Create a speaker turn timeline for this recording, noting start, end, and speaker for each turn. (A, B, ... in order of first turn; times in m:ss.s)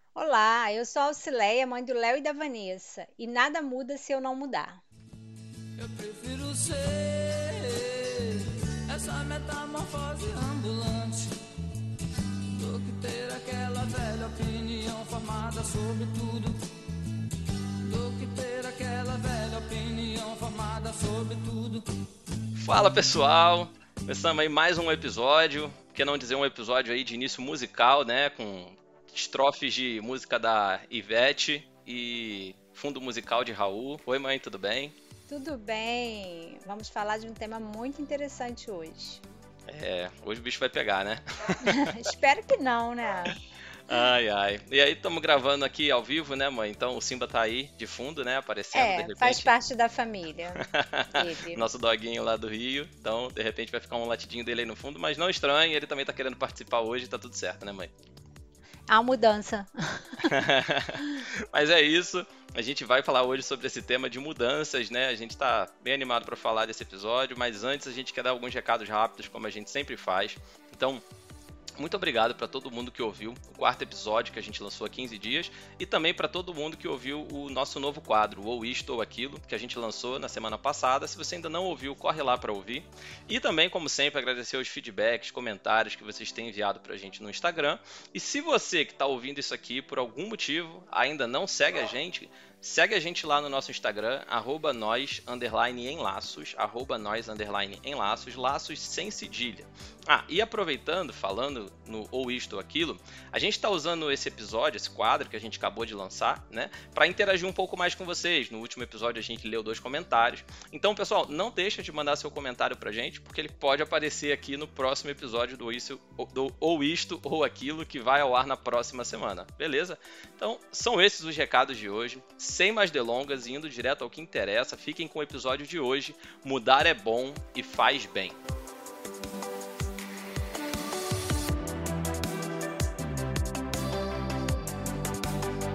0:00.2-0:04.8 A
0:05.8-0:11.3 B
0:12.5-0:16.6 B
0:17.8-0:21.9 B
0:22.6-0:35.0 C
0:35.3-0:39.2 A
0:39.7-0:42.0 C
0:41.6-0:43.4 A
0:43.9-0:49.5 C
0:48.7-0:51.6 A
0:50.6-0:57.9 C
0:58.9-1:00.4 A
1:00.2-1:11.0 C
1:11.8-2:08.4 C